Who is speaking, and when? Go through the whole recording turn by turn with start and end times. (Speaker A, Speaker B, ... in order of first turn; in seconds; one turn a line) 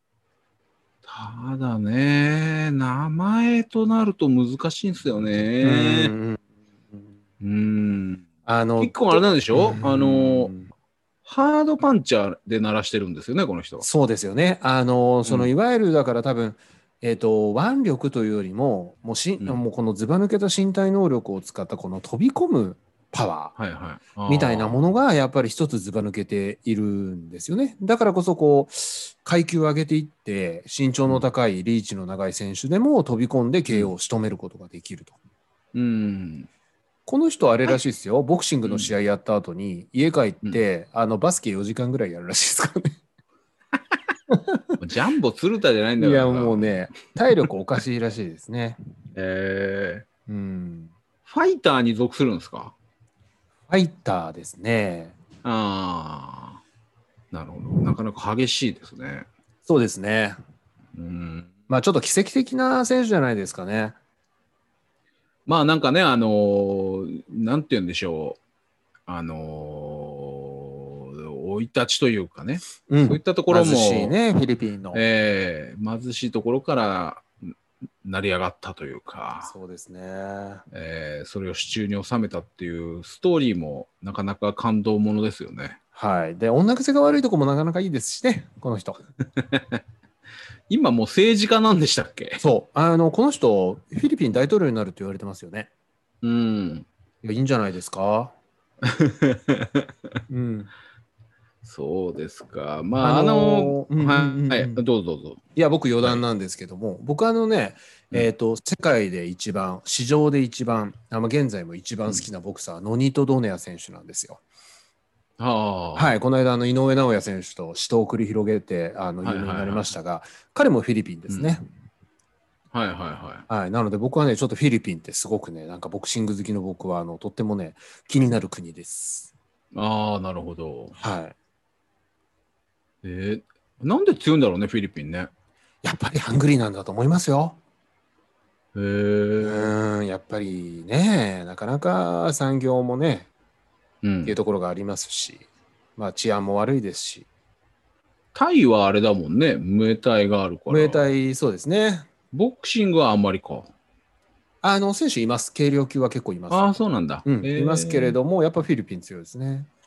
Speaker A: 1.1-6.1
Speaker B: 5.6-6.4
Speaker A: 7.4-8.2
Speaker B: 8.4-10.7
Speaker A: 8.8-10.5
Speaker A: 11.2-13.8
Speaker B: 13.8-23.6
Speaker A: 15.2-15.5
Speaker A: 23.6-24.7
Speaker B: 24.3-35.2
Speaker A: 35.7-36.5
Speaker B: 37.1-42.9
Speaker A: 38.6-38.9
Speaker B: 44.3-44.6
Speaker A: 44.8-46.8
Speaker B: 46.0-48.8
Speaker A: 49.1-50.0
Speaker B: 50.3-50.9
Speaker A: 51.3-52.7
Speaker B: 53.7-55.1
Speaker A: 55.4-56.6
Speaker A: 57.3-59.3
Speaker B: 59.6-60.4
Speaker A: 60.9-61.5
Speaker B: 61.7-64.0
Speaker A: 65.5-68.4
Speaker A: 69.1-74.2
Speaker B: 72.9-75.0
Speaker A: 74.9-77.3
Speaker A: 78.0-79.5
Speaker B: 79.4-80.6
Speaker A: 80.7-85.8
Speaker B: 85.9-89.0
Speaker A: 89.3-89.8
Speaker A: 90.7-92.4
Speaker B: 92.4-95.7
Speaker A: 96.2-96.8
Speaker B: 97.2-98.3
Speaker A: 98.8-99.9
Speaker B: 100.3-100.7
Speaker A: 101.6-105.4
Speaker B: 103.0-104.8
Speaker B: 105.5-114.4
Speaker A: 115.4-116.1
Speaker B: 116.0-121.6
Speaker A: 119.2-119.9
Speaker A: 121.3-121.6
Speaker A: 122.7-123.4
Speaker B: 123.5-129.3
Speaker A: 129.7-130.9
Speaker B: 131.0-131.3
Speaker A: 133.0-135.3
Speaker B: 135.8-137.6
Speaker A: 138.7-139.7
Speaker B: 139.4-143.3
Speaker A: 144.0-144.3
Speaker B: 144.2-145.4
Speaker B: 146.0-147.3
Speaker A: 148.3-151.1
Speaker B: 150.7-152.1
Speaker A: 152.3-153.7
Speaker B: 154.6-159.7
Speaker A: 156.5-158.2